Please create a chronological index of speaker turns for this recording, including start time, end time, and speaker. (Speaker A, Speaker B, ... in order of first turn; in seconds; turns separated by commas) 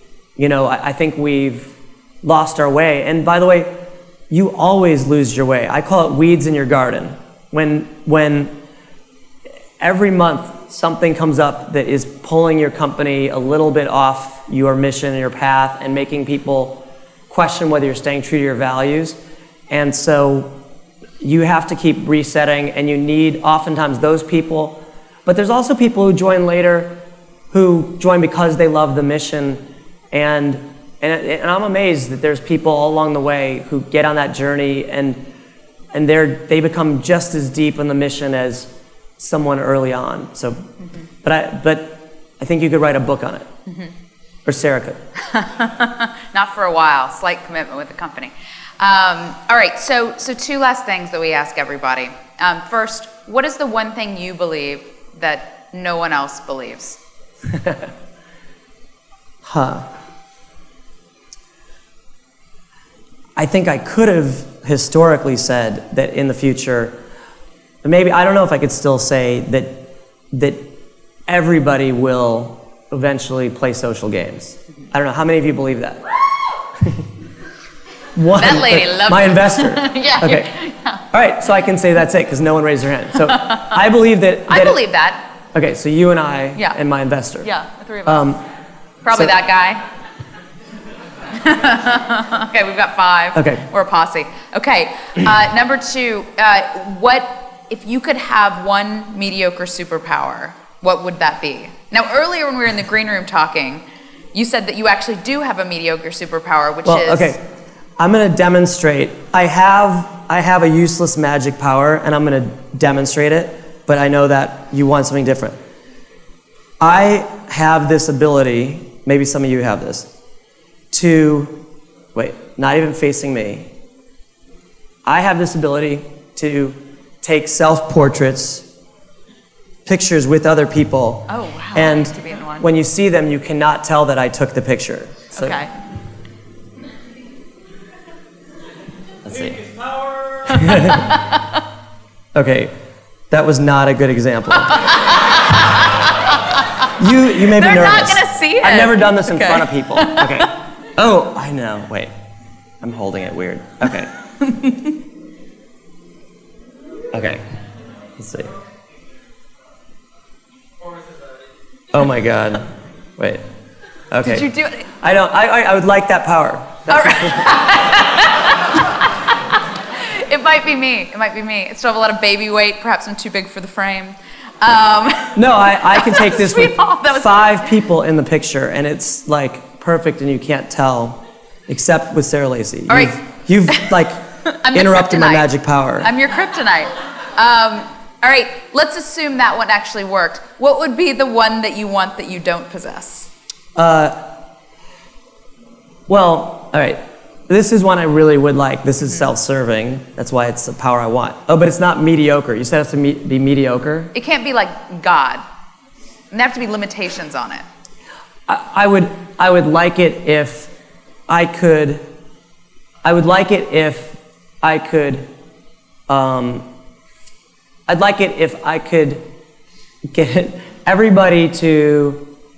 Speaker A: 0.4-3.7, Speaker A: 4.3-8.6, Speaker A: 9.8-19.2, Speaker A: 19.7-20.6, Speaker A: 21.2-27.0, Speaker A: 27.5-35.2, Speaker A: 35.9-40.7, Speaker A: 41.2-43.5, Speaker B: 43.7-43.9, Speaker A: 44.4-45.0, Speaker B: 45.2-57.0, Speaker A: 57.5-57.9, Speaker A: 59.4-59.9, Speaker A: 63.4-67.0, Speaker A: 67.8-70.7, Speaker A: 71.3-76.1, Speaker A: 76.8-77.0, Speaker A: 78.2-80.5, Speaker B: 78.3-81.0, Speaker A: 81.1-84.8, Speaker B: 83.3-83.8, Speaker B: 84.5-85.2, Speaker A: 85.5-87.5, Speaker B: 87.4-88.3, Speaker A: 88.0-88.4, Speaker B: 89.0-89.8, Speaker B: 91.3-107.3, Speaker A: 93.3-93.6, Speaker A: 106.8-107.4, Speaker A: 108.0-115.6, Speaker A: 116.8-120.1, Speaker A: 120.9-121.6, Speaker A: 122.1-123.7, Speaker A: 125.0-128.7, Speaker A: 129.8-135.6, Speaker B: 131.3-132.7, Speaker B: 135.3-135.7, Speaker A: 139.2-139.7, Speaker A: 140.5-141.1, Speaker B: 140.5-141.6, Speaker A: 142.3-142.7, Speaker A: 143.3-144.9, Speaker B: 144.6-145.6, Speaker A: 147.0-152.1, Speaker B: 147.5-150.4, Speaker A: 152.8-154.1, Speaker B: 154.5-154.8, Speaker A: 157.1-157.4, Speaker A: 158.2-158.5, Speaker A: 161.9-163.4, Speaker A: 164.1-167.5, Speaker B: 164.2-164.9, Speaker B: 166.9-177.8, Speaker A: 175.3-186.1, Speaker B: 182.9-183.2, Speaker B: 184.4-185.5, Speaker B: 186.0-193.3, Speaker A: 193.7-194.2, Speaker A: 196.1-204.1, Speaker B: 204.1-205.4, Speaker B: 206.3-207.6, Speaker A: 208.5-210.7, Speaker A: 211.3-212.0, Speaker A: 213.0-215.3, Speaker A: 216.1-216.7, Speaker A: 217.9-219.3, Speaker A: 220.1-222.3